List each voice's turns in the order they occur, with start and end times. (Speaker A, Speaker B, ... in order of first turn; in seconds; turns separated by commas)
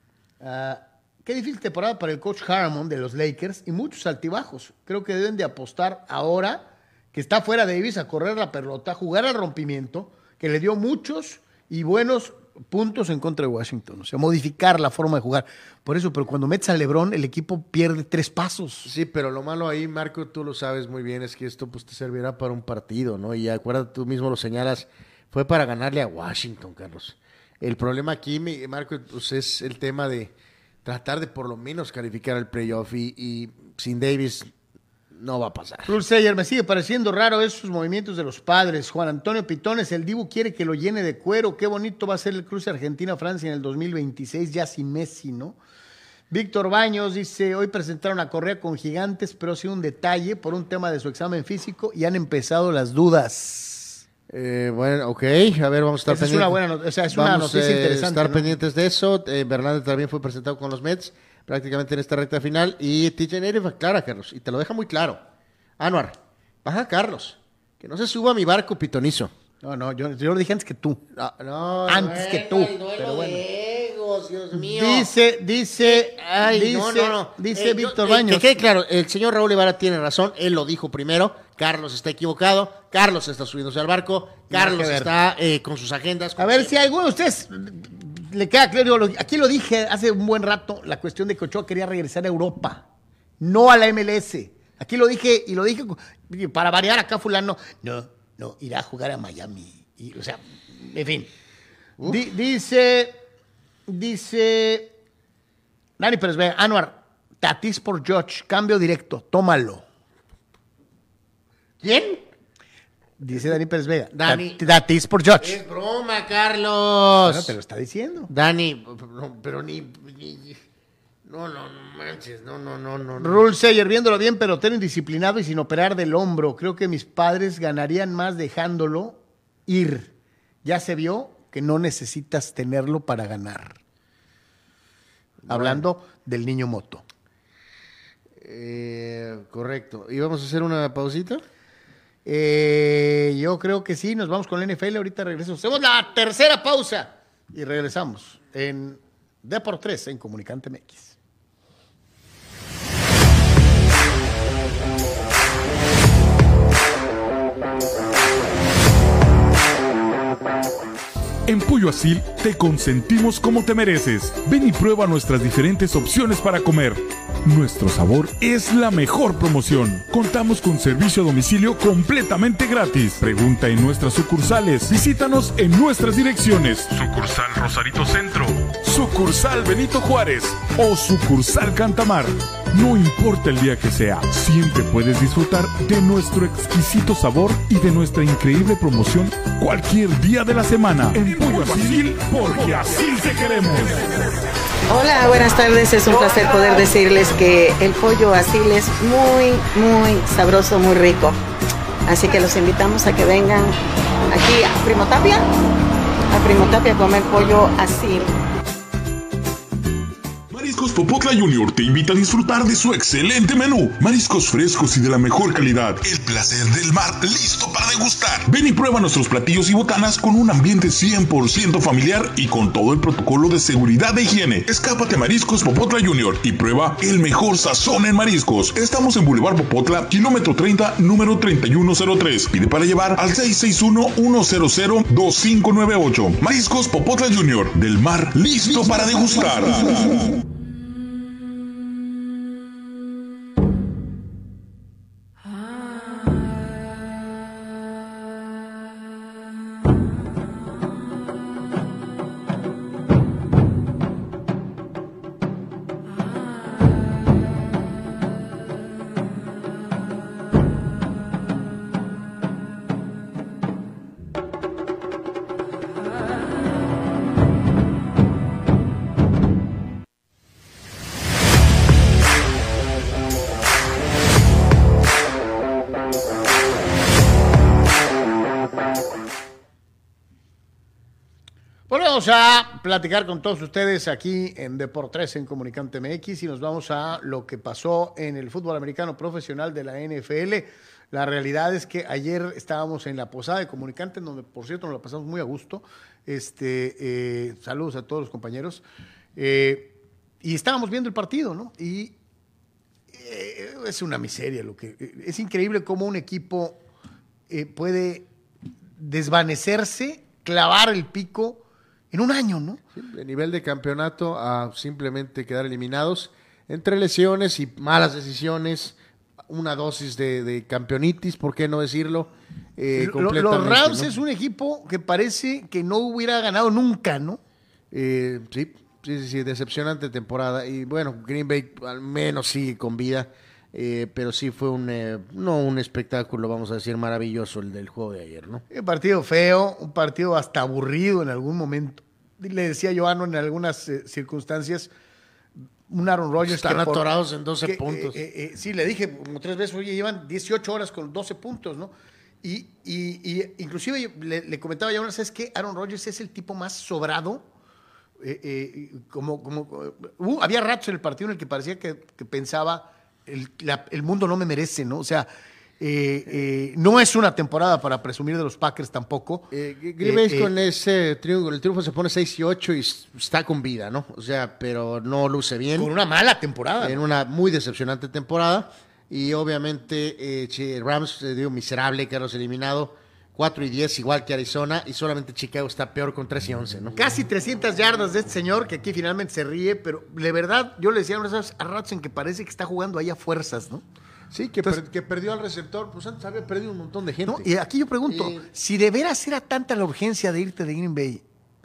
Speaker A: 0.4-18.9, Speaker B: 18.8-30.3, Speaker B: 30.9-34.5, Speaker B: 35.1-36.0, Speaker A: 35.9-45.6, Speaker A: 46.3-54.0, Speaker B: 54.3-56.6, Speaker A: 56.1-58.5, Speaker B: 57.1-65.2, Speaker B: 65.8-69.3, Speaker A: 69.6-71.0, Speaker B: 71.1-75.1, Speaker A: 71.8-73.4, Speaker A: 74.5-78.6, Speaker B: 75.8-86.8, Speaker A: 84.5-85.1, Speaker A: 86.4-92.8, Speaker A: 93.4-101.3, Speaker A: 102.0-103.2, Speaker A: 103.9-104.9, Speaker A: 106.0-109.8, Speaker B: 111.8-112.2, Speaker A: 113.2-115.6, Speaker B: 114.1-114.6, Speaker B: 115.4-117.5, Speaker A: 117.2-118.3, Speaker B: 118.3-120.6, Speaker B: 121.3-123.5, Speaker A: 123.2-130.1, Speaker A: 130.6-133.8, Speaker B: 135.5-135.8, Speaker A: 135.5-137.1, Speaker B: 138.4-141.4, Speaker A: 142.2-151.2, Speaker C: 161.5-194.1, Speaker D: 194.9-201.4, Speaker D: 202.1-203.8, Speaker D: 204.3-205.5, Speaker D: 206.3-208.3, Speaker E: 210.5-240.4, Speaker A: 281.9-298.8, Speaker A: 299.4-302.1, Speaker A: 303.1-306.8, Speaker A: 307.5-308.3, Speaker A: 308.9-312.8, Speaker B: 312.9-318.9, Speaker B: 319.5-324.1, Speaker A: 322.9-327.4, Speaker B: 327.9-338.6, Speaker A: 338.7-344.9, Speaker A: 345.9-347.1, Speaker B: 346.4-348.2, Speaker A: 347.6-357.5, Speaker A: 358.2-365.3, Speaker A: 365.8-370.5, Speaker B: 369.5-375.9, Speaker A: 375.7-377.0, Speaker B: 376.8-387.0, Speaker A: 386.9-393.8, Speaker B: 394.3-397.5, Speaker A: 397.3-401.2, Speaker B: 398.1-398.4